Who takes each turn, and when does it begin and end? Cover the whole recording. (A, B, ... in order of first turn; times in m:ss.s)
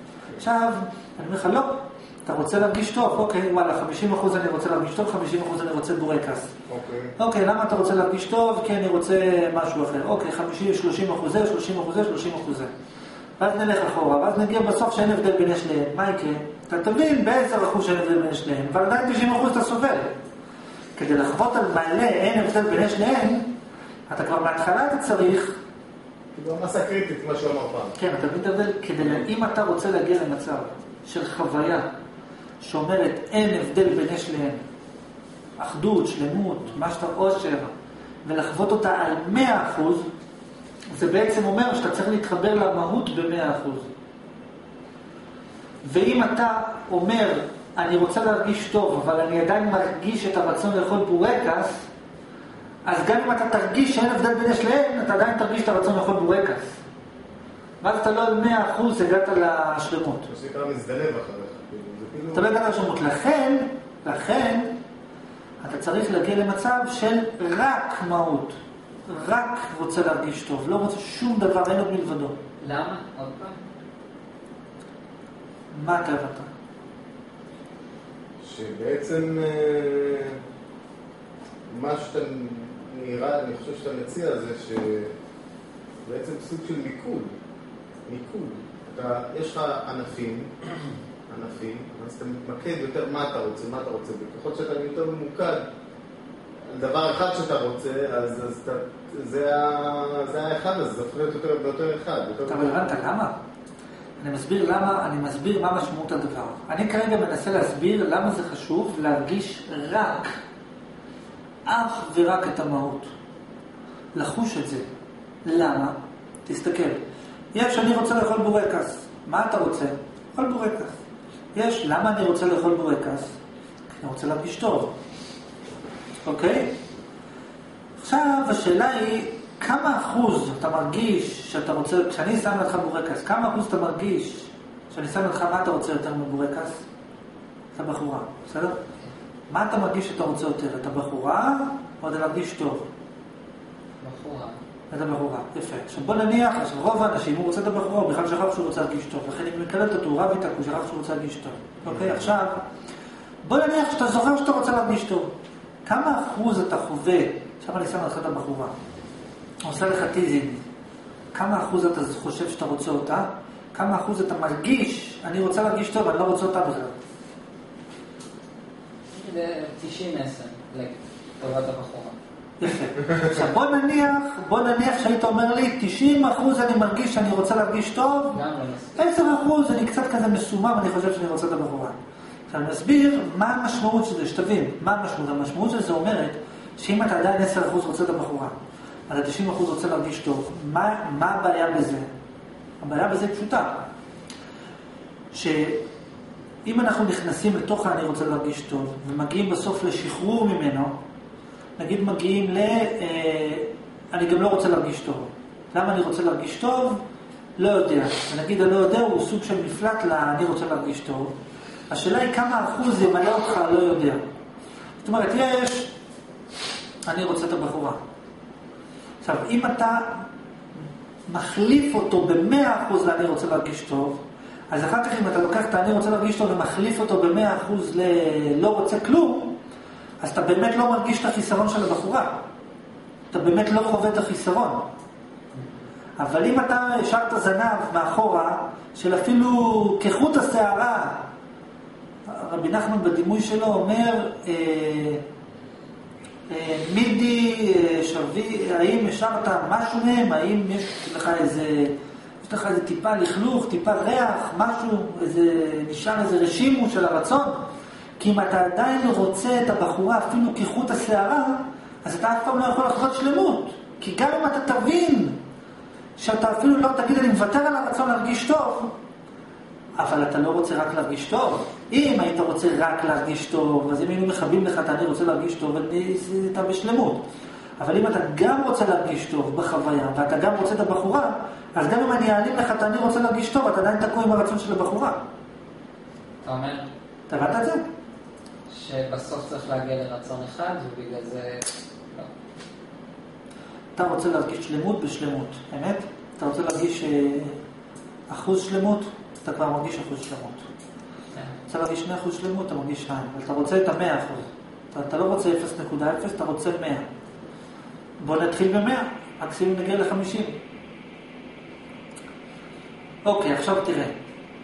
0:00.4-0:06.5 A
0:06.7-0:07.1 B
0:07.2-0:12.7 A
0:13.4-0:20.1 A
0:21.0-0:23.5 A
0:24.1-0:25.6 A
0:26.3-0:28.0 B
0:28.0-0:31.9 A
0:32.6-0:34.6 A
0:35.6-0:37.7 A
0:38.2-0:40.1 A
0:40.9-0:43.9 A
0:45.8-0:51.8 A
0:52.8-0:56.7 A
0:57.8-1:00.3 A
1:00.3-1:02.5 B
1:02.3-1:04.7 A
1:05.6-1:08.6 A
1:09.1-1:12.4 A
1:12.6-1:13.6 C
1:15.7-1:16.5 A
1:18.4-1:20.4 B
1:21.7-1:25.1 B
1:26.0-1:27.3 B
1:28.0-1:30.5 B
1:31.3-1:35.6 B
1:36.7-1:42.9 B
1:42.5-1:43.3 A
1:44.2-1:50.4 A
1:51.6-1:53.1 A
1:54.1-1:54.8 A
1:55.4-1:57.0 A
1:57.5-2:01.0 A
2:01.5-2:03.3 A
2:03.9-2:04.9 A
2:06.2-2:06.8 A
2:08.0-2:16.8 A
2:17.7-2:18.8 A
2:19.5-2:22.9 A
2:24.0-2:24.6 C
2:24.9-2:32.6 A
2:33.4-2:35.3 A
2:35.8-2:38.7 A
2:39.6-2:40.6 A
2:41.3-2:46.9 A
2:49.1-2:52.2 C
2:52.6-2:58.4 A
2:58.3-2:59.0 C
2:58.9-3:02.0 A
3:02.5-3:08.6 A
3:09.1-3:12.1 A
3:12.8-3:13.9 A
3:15.3-3:15.8 A
3:16.6-3:21.0 A
3:21.8-3:27.0 A
3:27.6-3:31.3 A
3:31.9-3:34.2 A
3:35.0-3:35.9 A
3:37.1-3:38.0 A
3:39.2-3:40.2 A
3:41.3-3:49.6 A
3:50.2-3:52.4 A
3:53.3-3:54.9 A
3:56.2-4:01.3 A
4:02.2-4:05.2 A
4:06.5-4:17.6 A
4:18.2-4:25.4 A
4:26.2-4:28.9 A
4:30.0-4:37.2 A
4:37.8-4:45.2 A
4:46.4-4:46.8 C
4:47.3-4:47.8 A
4:48.7-4:52.3 C
4:53.9-4:57.6 A
4:58.3-5:00.6 A
5:01.7-5:07.1 A
5:08.2-5:10.6 A
5:13.2-5:14.1 A